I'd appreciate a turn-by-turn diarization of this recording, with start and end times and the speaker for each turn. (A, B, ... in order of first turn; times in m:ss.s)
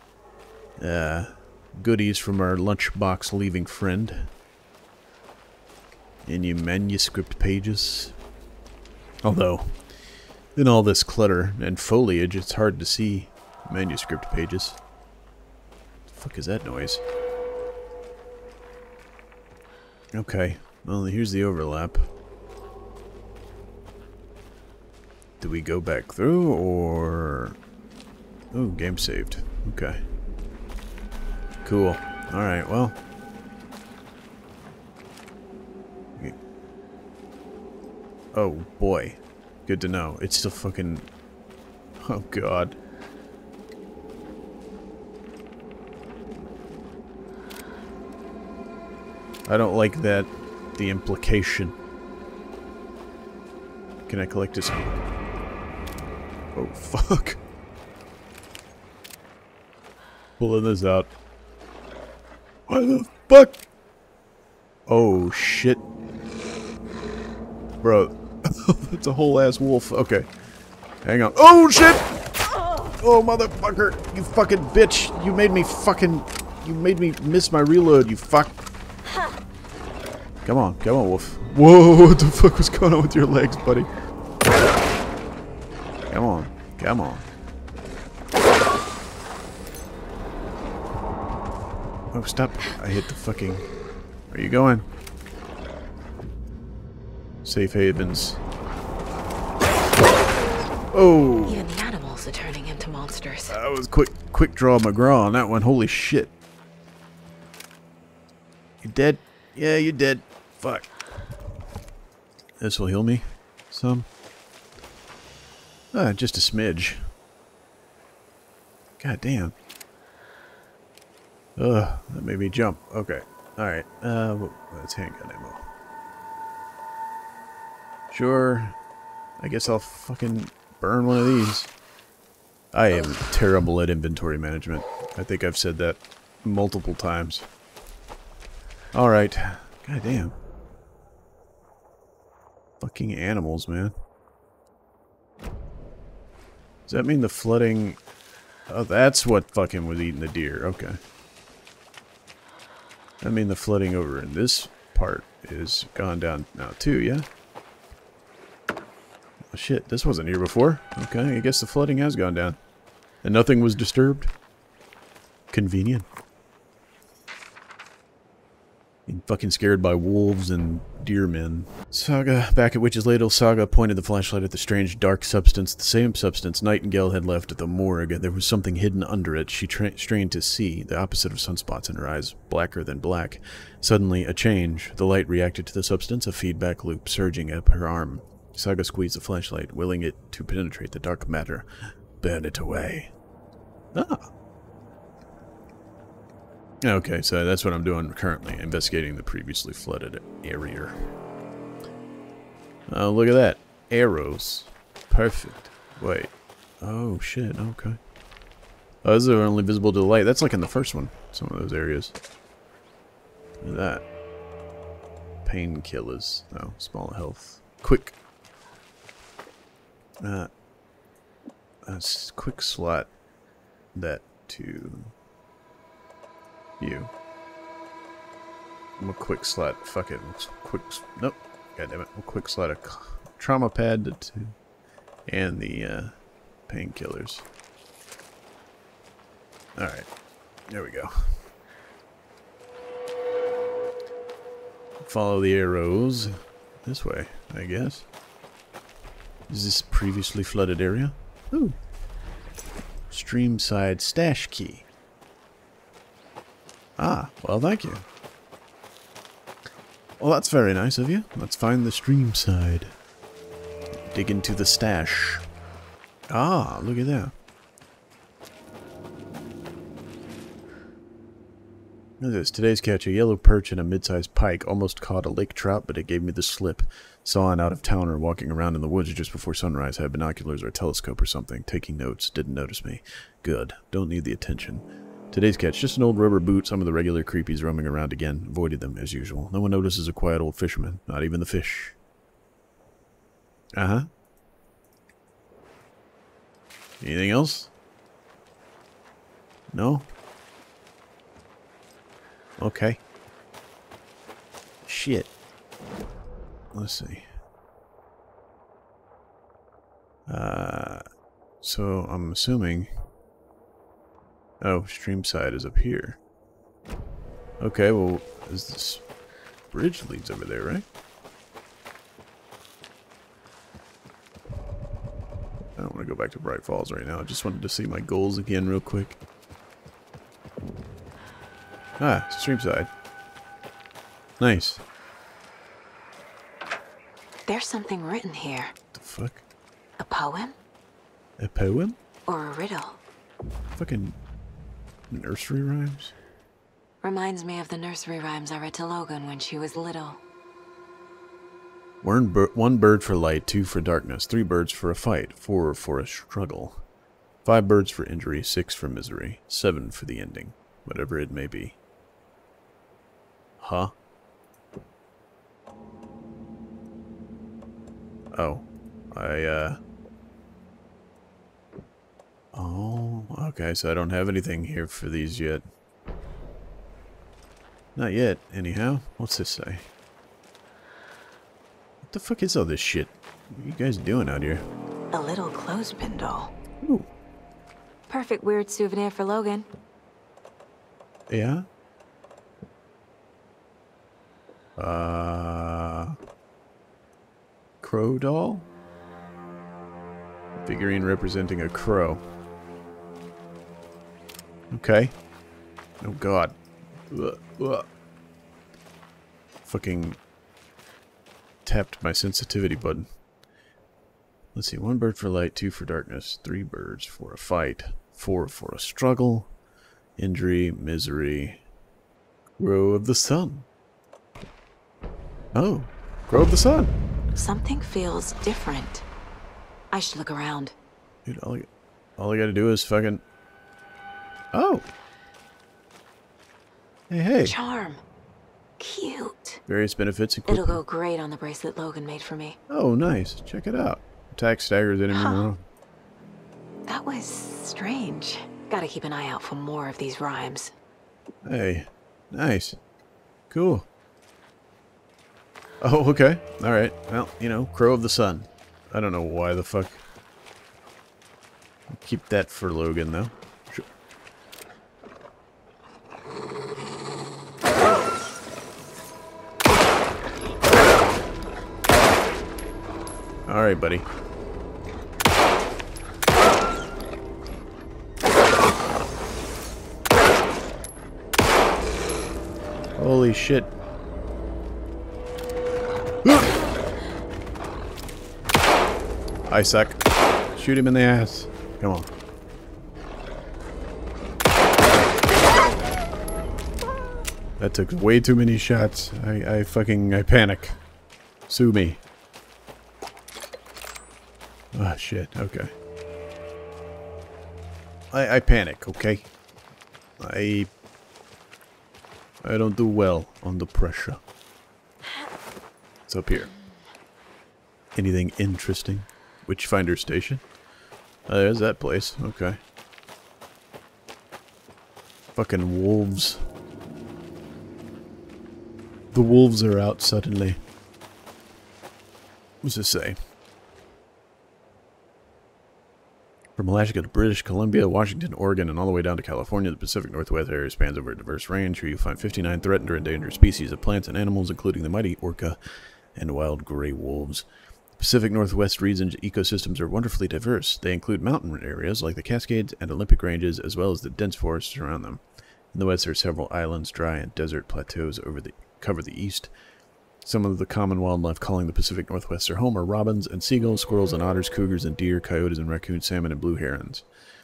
0:00.8-0:04.3 A
0:06.2-0:08.1 A
0:09.2-0:09.8 A
0:10.5-0:14.8 A
0:16.1-0:17.0 A
0:20.1-0:22.1 A
0:25.4-0:27.6 A
0:28.5-0:30.0 A
0:31.6-0:33.0 A
0:38.3-0:41.1 A
0:42.0-0:42.8 A
0:49.4-0:51.8 A
0:54.1-0:55.0 A
0:56.5-0:57.4 A
1:00.4-1:01.1 A
1:02.7-1:03.6 A
1:04.9-1:05.8 A
1:07.8-1:10.3 A
1:11.0-1:12.1 A
1:12.9-1:18.5 A
1:20.4-1:23.9 A
1:26.1-1:27.3 A
1:32.1-1:33.7 A
1:34.3-1:34.9 A
1:37.4-1:38.4 A
1:40.9-1:41.6 A
1:41.4-1:43.5 B
1:43.5-1:46.3 A
1:48.8-1:50.9 A
1:52.6-1:54.1 A
1:55.9-1:57.1 A
1:59.0-1:59.5 A
2:01.6-2:05.7 A
2:08.1-2:08.8 A
2:09.4-2:11.7 A
2:12.7-2:17.5 A
2:18.9-2:20.4 A
2:22.8-2:24.0 A
2:26.9-2:28.0 A
2:28.7-2:31.0 A
2:33.2-2:37.3 A
2:39.5-2:42.6 A
2:43.2-2:44.3 A
2:45.5-2:46.1 A
2:49.1-3:13.1 A
3:13.9-3:14.3 A
3:16.8-3:21.1 A
3:22.9-3:28.0 A
3:29.0-3:32.1 A
3:33.6-3:34.0 A
3:35.4-3:38.1 A
3:40.2-3:40.5 A
3:41.8-3:43.1 A
3:43.9-3:45.1 A
3:46.8-3:47.1 A
3:49.0-3:54.6 A
3:55.3-3:56.1 A
3:56.7-3:57.4 A
3:59.8-4:00.1 A
4:00.7-4:01.3 A
4:05.0-4:08.1 A
4:09.5-4:11.8 A
4:13.1-4:14.8 A
4:17.0-4:18.0 A
4:20.2-4:23.0 A
4:24.1-4:25.4 A
4:26.3-4:27.3 A
4:32.2-4:52.0 A
4:53.8-4:54.1 A
4:57.0-4:57.7 A
4:59.7-5:00.1 A
5:02.6-5:03.0 A
5:04.8-5:05.3 A
5:06.7-5:07.3 A
5:10.3-5:11.0 A
5:11.6-5:12.9 A
5:14.6-5:16.2 A
5:17.6-5:19.0 A
5:19.7-5:20.8 A
5:25.8-5:29.2 A
5:32.0-5:32.9 A
5:34.4-5:34.8 A
5:37.5-5:38.7 B
5:38.9-5:39.4 A
5:40.0-5:40.6 B
5:41.4-5:42.0 A
5:42.3-5:43.0 B
5:43.7-5:44.2 A
5:45.1-5:46.1 A
5:47.0-5:50.2 B
5:52.0-5:56.8 A
5:57.4-6:01.8 A
6:03.6-6:03.9 A
6:08.3-6:09.8 A
6:12.5-6:15.6 A
6:18.0-6:19.9 A
6:22.0-6:24.6 A
6:25.1-6:26.5 B
6:26.8-6:27.1 A
6:28.1-6:29.7 B
6:31.3-6:31.6 A
6:34.8-6:36.2 A
6:37.8-6:38.6 A
6:40.6-6:42.2 A
6:44.7-6:45.1 A
6:46.0-6:46.6 A
6:47.1-6:47.9 A
6:49.6-6:50.2 A
6:51.6-6:53.1 A
6:54.5-6:59.5 A
7:00.2-7:01.6 A
7:02.6-7:03.7 A
7:05.5-7:06.9 A
7:07.3-7:09.0 B
7:09.9-7:10.7 B
7:11.2-7:13.2 A
7:14.5-7:14.9 A
7:17.1-7:17.5 A
7:17.4-7:18.0 B
7:18.8-7:19.6 B
7:19.7-7:20.8 A
7:20.5-7:22.6 B
7:22.7-7:25.6 A
7:25.1-7:25.5 B
7:26.9-7:30.7 B
7:31.4-7:32.8 A
7:33.5-7:33.9 A
7:35.8-7:40.0 A
7:41.9-7:43.8 A
7:53.4-7:54.1 A
8:03.0-8:03.7 A
8:06.2-8:06.5 A
8:09.5-8:12.1 A
8:17.6-8:20.8 A
8:21.5-8:22.0 A
8:24.7-8:25.7 A
8:28.1-8:29.3 A
8:30.2-8:30.7 A
8:32.4-8:34.2 A
8:36.0-8:36.5 A
8:37.9-8:40.4 A
8:41.3-8:42.6 A
8:45.3-8:46.4 A
8:49.1-8:50.6 A
8:52.6-8:53.2 A
8:56.6-9:05.6 A
9:06.1-9:07.4 A
9:08.0-9:19.5 A
9:20.2-9:27.0 A